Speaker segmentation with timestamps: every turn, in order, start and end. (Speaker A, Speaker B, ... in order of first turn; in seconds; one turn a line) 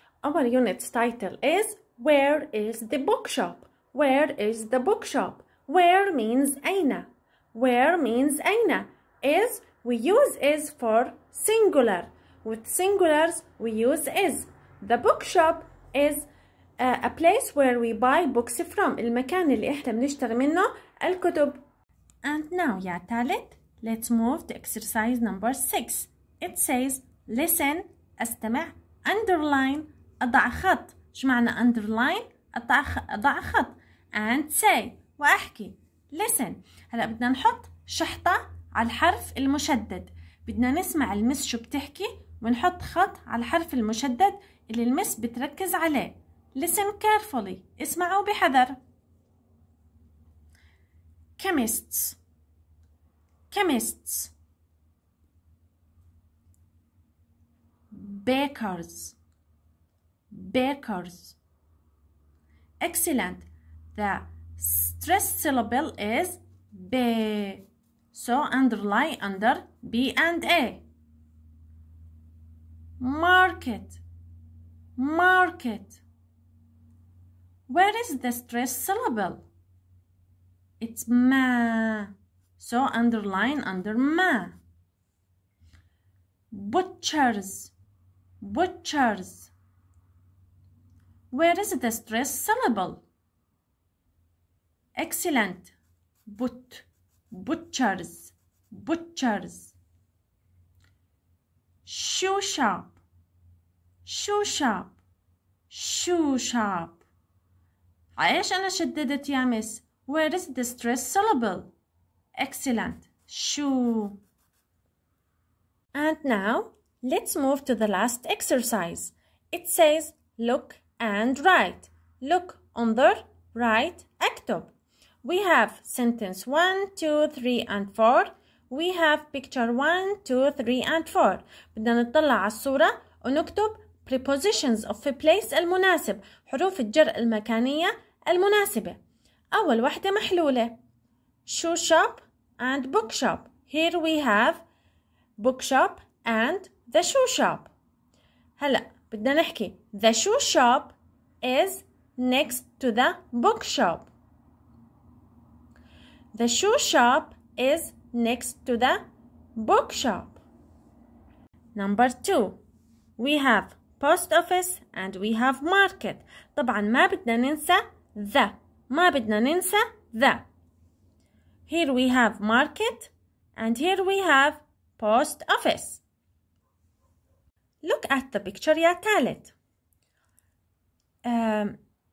Speaker A: 0.2-16.3
Speaker A: 16.8-21.6
Speaker A: 22.2-48.8
Speaker A: 51.4-52.2
Speaker A: 53.5-54.3
Speaker A: 57.9-59.2
Speaker A: 60.3-61.4
Speaker A: 62.8-70.8
Speaker A: 73.0-74.0
Speaker A: 75.0-76.0
Speaker A: 77.7-79.5
Speaker A: 80.8-84.6
Speaker A: 86.5-87.7
Speaker A: 88.4-89.5
Speaker A: 91.3-93.0
Speaker A: 94.9-95.7
Speaker A: 96.2-99.7
Speaker A: 101.8-103.0
Speaker A: 104.0-105.0
Speaker A: 105.7-107.0
Speaker A: 108.2-111.7
Speaker A: 112.3-114.2
Speaker A: 115.9-124.7
Speaker A: 125.2-139.0
Speaker A: 139.5-140.8
Speaker A: 141.4-144.6
Speaker A: 145.4-147.7
Speaker A: 148.6-154.1
Speaker A: 156.3-159.0
Speaker A: 159.6-160.4
Speaker A: 161.7-162.6
Speaker A: 163.2-170.4
Speaker A: 171.7-176.0
Speaker A: 177.8-179.5
Speaker A: 181.2-181.8